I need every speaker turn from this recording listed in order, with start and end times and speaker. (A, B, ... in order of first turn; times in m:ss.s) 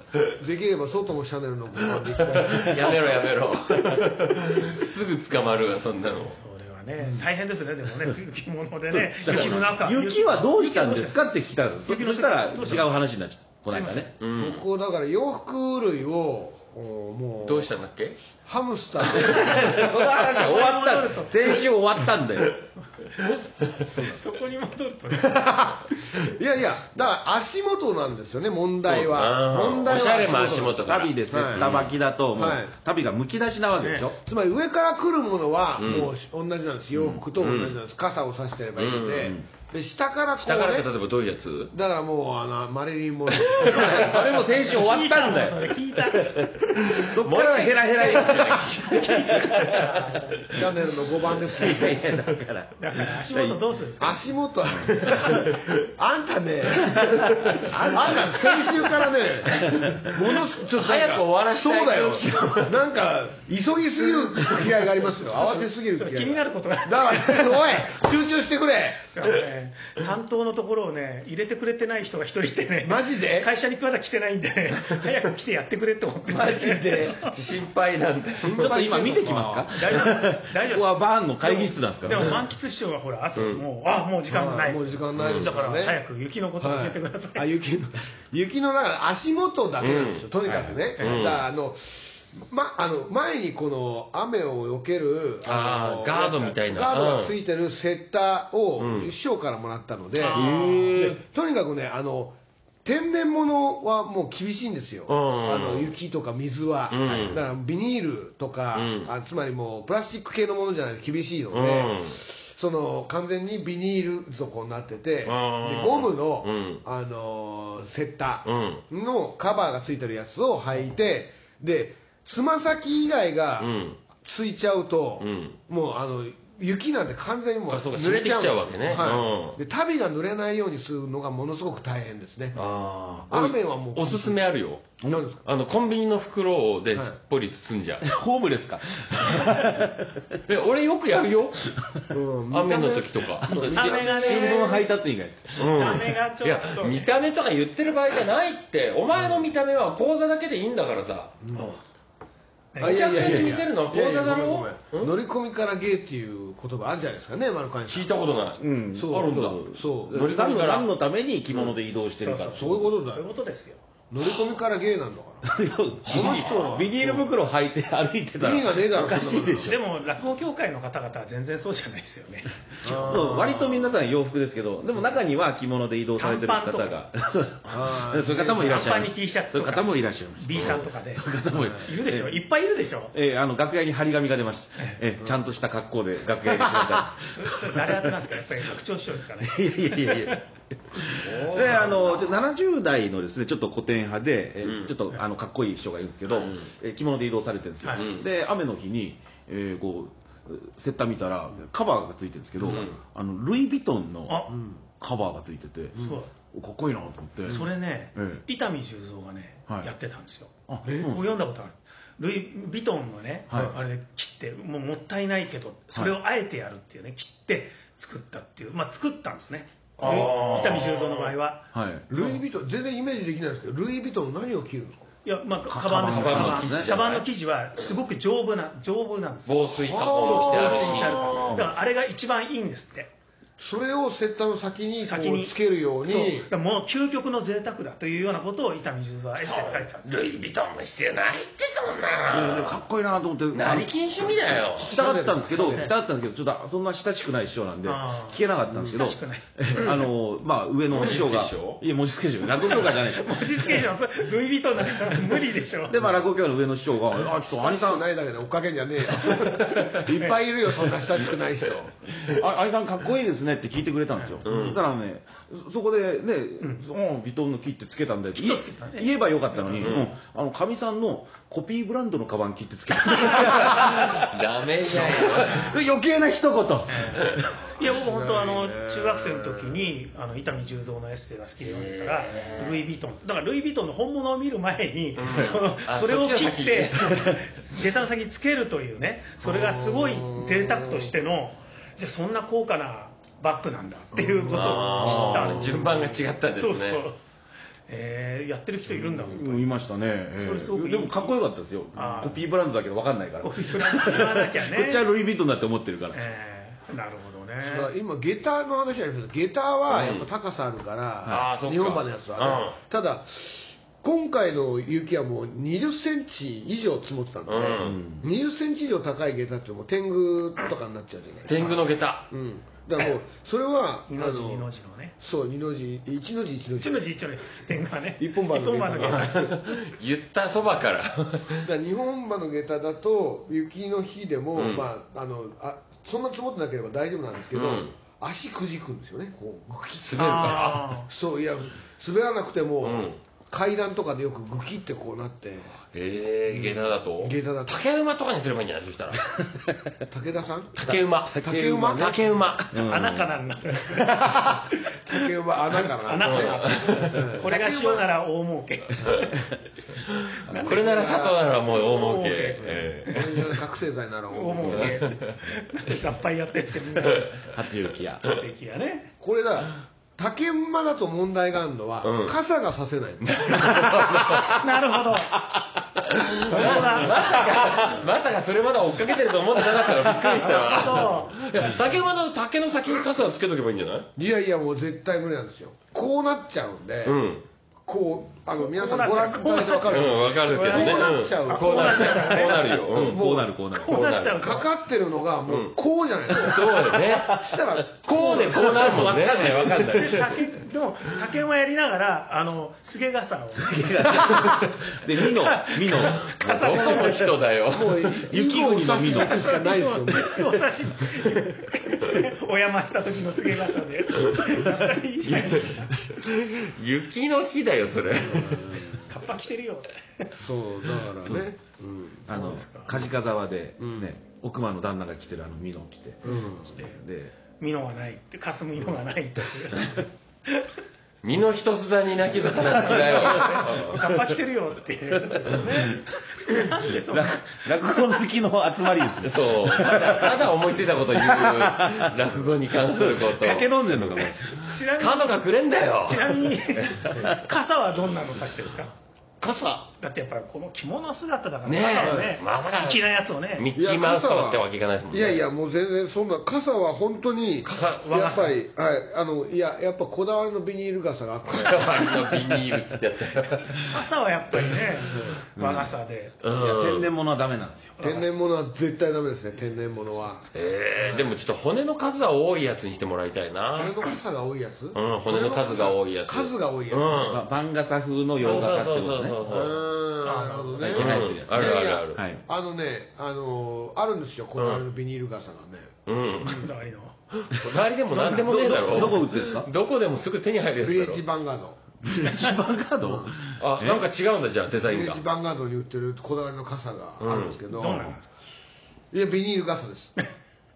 0:00.3-0:03.2 A
0:02.2-0:06.4 B
0:06.3-0:13.0 C
0:07.0-0:07.3 A
0:08.9-0:14.1 D
0:13.7-0:14.1 C
0:14.2-0:14.6 B
0:14.4-0:17.7 A
0:17.4-0:18.2 B
0:18.4-0:19.8 A
0:19.3-0:22.6 D
0:19.5-0:21.6 C
0:23.9-0:25.8 C
0:25.2-0:31.7 A
0:28.9-0:31.9 B
0:30.6-0:34.2 D
0:32.3-0:32.7 A
0:33.8-0:34.1 C
0:34.2-0:40.9 A
0:35.8-0:36.1 B
0:36.9-0:37.2 D
0:37.4-0:37.8 B
0:38.8-0:39.3 B
0:40.4-0:41.7 B
0:41.7-0:44.4 A
0:43.7-0:50.2 D
0:43.8-0:46.5 C
0:46.9-0:49.8 B
0:48.1-0:50.4 C
0:50.5-0:52.0 A
0:51.6-0:53.6 D
0:52.8-0:54.3 C
0:54.0-1:09.1 A
0:54.7-0:55.1 D
0:57.6-0:58.7 D
0:58.4-0:58.6 B
0:59.6-1:02.8 B
1:05.5-1:07.8 C
1:09.1-1:17.4 C
1:12.8-1:13.5 A
1:16.3-1:17.4 A
1:17.2-1:18.8 B
1:18.4-1:19.7 A
1:18.5-1:22.4 D
1:19.8-1:27.4 C
1:23.4-1:23.6 B
1:24.3-1:26.0 A
1:25.2-1:25.5 B
1:26.6-2:12.6 A
1:29.8-1:31.4 B
1:31.0-1:31.3 C
1:35.4-1:37.3 B
1:38.8-1:39.1 B
1:40.2-1:41.2 C
1:40.3-1:41.2 B
1:45.1-1:45.9 B
1:46.9-1:47.4 B
1:48.7-1:49.1 B
1:51.5-1:52.1 B
1:55.2-1:56.8 B
1:58.4-1:58.8 B
2:03.6-2:04.0 B
2:05.2-2:05.6 B
2:07.7-2:09.6 B
2:12.5-2:18.1 B
2:13.3-2:14.4 A
2:15.0-2:15.4 A
2:18.0-2:20.4 D
2:20.5-2:21.6 B
2:22.1-2:24.7 A
2:22.5-2:23.5 B
2:23.4-2:25.9 D
2:23.5-2:24.9 C
2:25.6-2:31.8 B
2:25.7-2:27.1 C
2:31.4-2:31.8 A
2:32.7-2:33.0 C
2:32.8-2:38.2 A
2:32.8-2:35.2 B
2:33.2-2:33.5 D
2:37.9-2:40.9 B
2:38.6-2:42.9 D
2:39.0-2:40.1 A
2:42.2-2:43.8 C
2:42.5-2:43.3 A
2:44.1-2:45.5 A
2:45.4-2:49.8 D
2:46.0-2:46.7 B
2:46.1-2:47.2 A
2:48.4-2:49.7 A
2:49.6-2:52.5 C
2:52.8-2:53.9 A
2:52.9-3:02.4 D
2:56.2-2:57.0 C
2:57.7-2:59.0 A
2:58.3-3:03.1 C
3:01.5-3:01.8 A
3:03.1-3:08.3 D
3:06.7-3:07.0 A
3:07.3-3:10.4 C
3:09.4-3:28.4 D
3:11.2-3:12.3 A
3:11.2-3:12.0 B
3:14.6-3:14.9 B
3:16.3-3:16.7 B
3:17.8-3:18.1 C
3:18.0-3:18.2 B
3:22.6-3:23.0 B
3:24.5-3:24.8 A
3:26.0-3:26.3 C
3:27.4-3:42.4 C
3:30.7-3:31.3 D
3:33.5-3:33.8 D
3:40.0-3:41.3 B
3:40.3-3:40.7 D
3:41.7-3:42.1 D
3:42.1-3:45.1 A
3:45.2-3:49.7 C
3:45.7-3:46.9 D
3:46.1-3:47.2 B
3:49.5-3:51.5 B
3:49.8-3:51.6 A
3:50.2-3:53.1 C
3:51.3-3:51.7 D
3:53.6-3:56.5 A
3:55.0-4:00.1 C
3:59.7-4:02.8 B
4:02.3-4:03.9 D
4:03.5-4:05.0 B
4:04.8-4:13.7 D
4:04.8-4:05.9 A
4:07.8-4:09.9 C
4:08.7-4:09.0 A
4:10.9-4:11.8 B
4:12.6-4:16.0 C
4:15.9-4:18.0 D
4:17.3-4:22.0 A
4:19.2-4:20.4 C
4:22.2-4:37.5 D
4:24.2-4:24.4 C
4:24.4-4:24.8 B
4:26.6-4:26.9 C
4:28.3-4:30.0 C
4:29.8-4:30.1 B
4:33.2-4:35.7 B
4:36.9-4:55.9 C
4:37.8-4:39.8 A
4:41.6-4:42.7 B
4:45.2-4:47.4 B
4:49.4-4:51.1 A
4:54.2-4:55.1 A
4:54.5-4:57.0 B
4:55.0-4:55.6 D
4:55.8-4:56.1 A
4:56.6-4:57.2 C
4:57.9-4:59.6 C
4:58.9-5:06.2 D
5:00.4-5:01.4 C
5:01.9-5:02.4 C
5:03.4-5:05.0 C
5:06.1-5:07.9 C
5:07.6-5:24.7 A
5:09.9-5:10.3 B
5:11.3-5:12.8 B
5:17.4-5:18.0 B
5:17.8-5:18.2 D
5:21.5-5:22.3 B
5:24.1-5:25.1 C
5:25.2-5:27.1 A
5:26.8-5:29.4 C
5:28.2-5:29.6 A
5:29.0-5:31.6 B
5:31.6-5:45.8 A
5:34.5-5:34.8 B
5:37.5-5:37.9 B
5:40.0-5:40.9 B
5:40.2-5:41.1 C
5:42.8-5:43.2 B
5:45.9-5:49.2 B
5:46.5-5:47.8 A
5:50.1-5:52.4 A
5:50.7-5:52.7 B
5:51.3-5:52.0 D
5:52.7-5:53.4 D
5:52.8-5:54.2 C
5:53.9-5:54.6 D
5:54.3-5:58.1 A
5:56.0-5:59.5 C
5:56.2-5:57.3 B
6:00.5-6:01.7 A
6:00.5-6:03.5 B
6:01.7-6:03.4 C
6:02.6-6:05.0 A
6:04.3-6:07.4 C
6:04.7-6:05.4 B
6:07.5-6:08.2 D
6:08.2-6:09.1 C
6:09.2-6:14.4 A
6:12.0-6:12.4 B
6:13.3-6:14.5 B
6:14.6-6:15.3 C
6:16.1-6:24.1 B
6:16.5-6:17.9 C
6:19.8-6:20.3 D
6:20.4-6:21.4 C
6:24.2-6:27.2 A
6:27.0-6:27.4 B
6:27.8-6:33.5 A
6:28.6-6:32.7 C
6:29.9-6:33.2 B
6:32.9-6:34.1 D
6:33.7-6:34.7 C
6:33.8-6:34.6 B
6:34.4-6:39.2 A
6:35.5-6:35.8 B
6:36.3-6:40.3 B
6:38.6-6:40.4 D
6:39.9-6:44.5 C
6:43.6-6:47.1 D
6:45.2-6:47.3 C
6:46.4-6:48.1 B
6:47.7-6:50.6 A
6:48.0-6:49.5 D
6:49.0-6:55.9 C
6:54.3-6:54.6 B
6:55.2-6:59.0 B
6:58.3-6:59.0 A
6:59.0-7:00.3 C
7:00.4-7:02.2 A
7:02.2-7:07.3 D
7:02.3-7:03.0 C
7:03.8-7:04.1 A
7:06.2-7:06.7 A
7:06.7-7:07.0 C
7:07.6-7:10.7 C
7:11.2-7:14.0 B
7:12.6-7:18.2 C
7:12.8-7:14.0 D
7:15.5-7:15.9 D
7:16.9-7:20.5 D
7:19.2-7:24.3 B
7:21.1-7:22.2 D
7:22.9-7:24.7 D
7:24.6-7:25.4 C
7:25.0-7:26.4 B
7:26.0-7:28.9 C
7:26.8-7:27.4 D
7:29.4-7:29.9 A
7:30.0-7:33.7 C
7:31.6-7:33.0 B
7:32.0-7:32.3 A
7:33.6-7:35.4 B
7:33.7-7:42.5 A
7:37.6-7:38.5 B
7:38.1-7:38.5 C
7:41.5-7:43.8 B
7:43.8-7:46.3 C
7:45.1-7:45.4 A
7:45.6-7:45.9 D
7:46.4-7:47.1 B
7:46.5-7:47.9 D
7:48.0-7:48.3 C
7:48.0-7:50.5 A
7:50.5-7:54.1 B
7:51.0-7:51.3 A
7:53.7-7:57.2 A
7:54.9-7:57.4 B
7:57.2-7:59.4 D
7:58.4-7:59.8 B
7:59.4-8:05.9 A
8:00.2-8:00.9 C
8:00.8-8:02.4 D
8:00.9-8:02.2 B
8:04.6-8:04.8 B
8:06.0-8:06.7 B
8:06.4-8:07.2 C
8:07.5-8:11.2 B
8:08.2-8:08.4 C
8:08.3-8:09.7 D
8:10.8-8:11.8 A
8:12.0-8:14.0 D
8:13.0-8:13.3 A
8:13.6-8:15.2 B
8:14.9-8:18.2 A
8:17.2-8:17.6 B
8:17.7-8:18.3 C
8:19.1-8:20.1 A